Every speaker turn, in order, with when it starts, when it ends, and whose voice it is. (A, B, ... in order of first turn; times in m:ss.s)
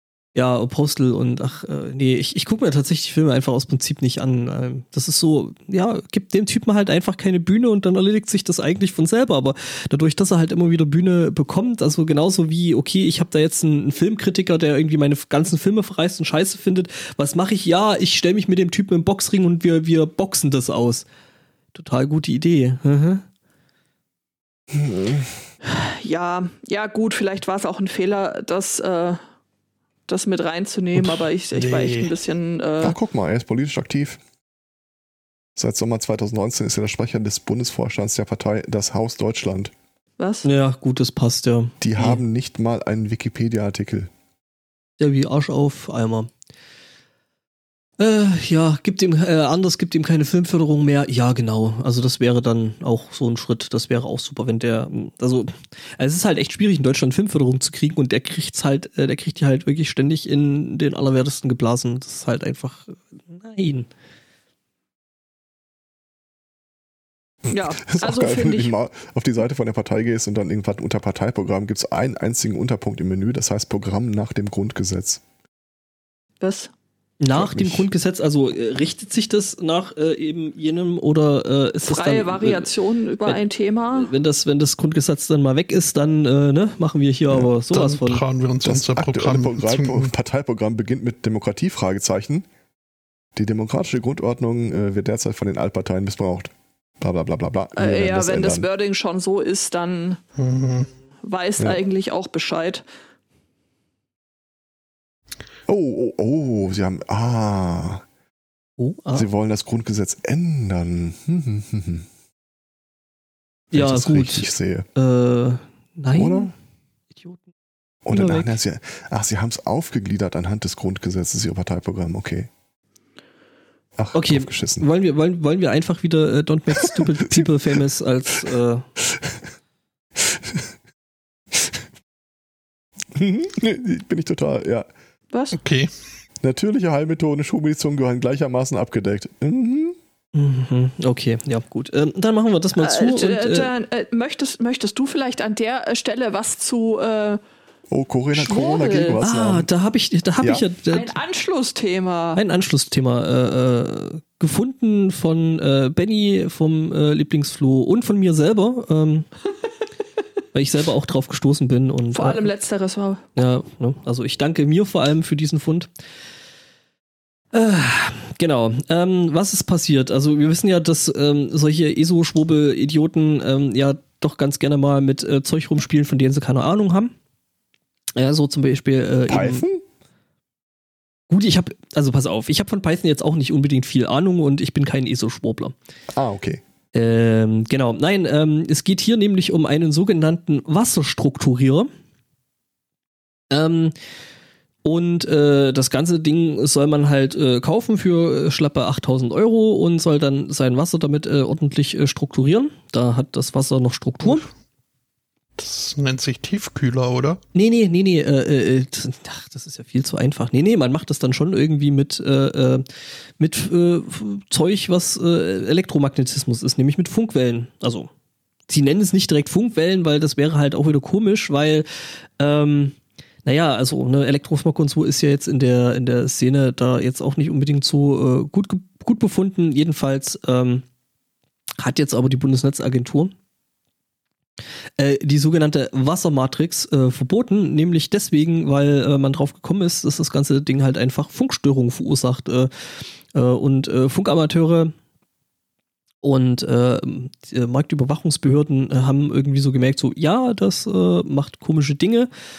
0:00.4-0:21.1 A
0:21.7-0:23.2 A
0:24.7-0:25.4 B
0:25.6-0:29.2 C
0:30.1-0:33.0 C
0:31.0-0:32.1 D
0:32.8-0:34.2 B
0:35.6-0:39.7 B
0:40.2-0:40.5 C
0:40.4-0:42.2 A
0:41.8-0:44.1 B
0:45.0-0:46.3 A
0:48.0-1:03.9 A
1:07.5-1:15.2 B
1:07.5-1:08.7 C
1:16.4-1:16.7 C
1:17.2-1:22.7 A
1:17.3-1:17.9 B
1:21.9-1:24.1 C
1:23.9-1:28.2 A
1:27.7-1:30.1 D
1:28.6-1:32.5 B
1:33.4-1:38.7 B
1:37.8-1:40.2 C
1:40.4-1:40.9 D
1:41.2-1:42.8 C
1:45.7-1:48.0 B
1:48.8-1:49.3 A
1:49.1-1:52.1 B
1:53.7-1:56.5 A
1:53.7-1:54.9 B
1:56.2-1:56.5 B
1:57.1-1:57.4 A
1:58.1-2:02.5 B
1:58.1-1:58.5 A
2:04.0-2:04.9 B
2:04.1-2:08.9 A
2:06.8-2:07.5 B
2:10.2-2:10.7 B
2:11.5-2:11.8 B
2:13.2-2:14.9 B
2:15.3-2:15.6 C
2:15.5-2:15.9 D
2:16.4-2:20.0 B
2:20.3-2:23.7 A
2:22.8-2:27.4 C
2:27.9-2:29.7 B
2:28.3-2:29.2 C
2:29.2-2:31.1 A
2:30.4-2:30.6 B
2:30.9-2:32.4 C
2:32.4-2:39.3 A
2:40.5-2:42.4 A
2:42.1-2:43.2 C
2:43.4-2:45.9 A
2:47.5-2:57.1 A
2:58.2-2:59.6 A
2:59.3-2:59.8 B
3:01.3-3:05.8 A
3:06.1-3:06.6 B
3:06.9-3:11.9 A
3:13.5-3:14.0 A
3:14.8-3:24.5 A
3:25.6-3:27.4 D
3:27.5-3:32.8 A
3:33.4-3:38.1 A
3:38.7-3:50.8 A
3:51.8-3:53.3 A
3:55.0-4:02.7 A
4:03.3-4:04.9 A
4:06.2-4:12.3 A